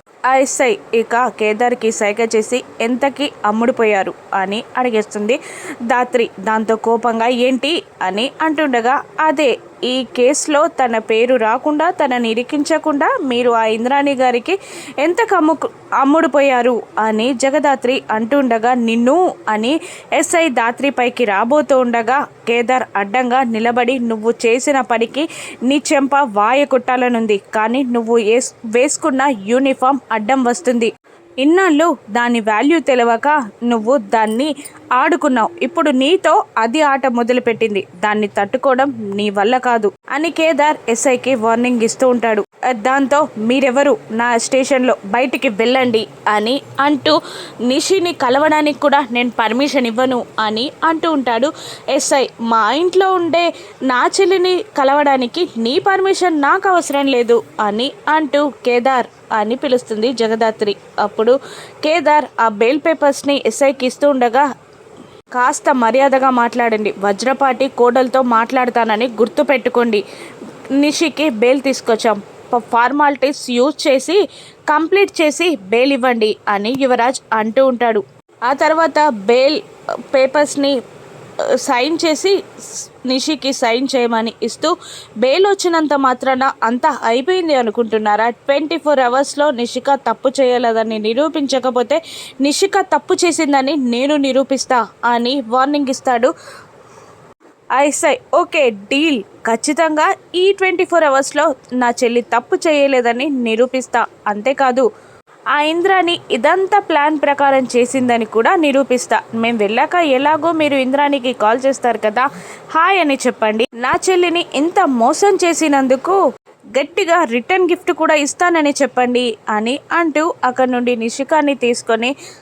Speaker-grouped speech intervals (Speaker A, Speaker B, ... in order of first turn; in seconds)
Speaker A: 0.3-64.4, 65.3-70.0, 70.8-74.2, 74.7-79.6, 80.1-80.7, 81.6-82.3, 83.0-96.3, 97.8-104.8, 105.5-116.2, 116.7-122.1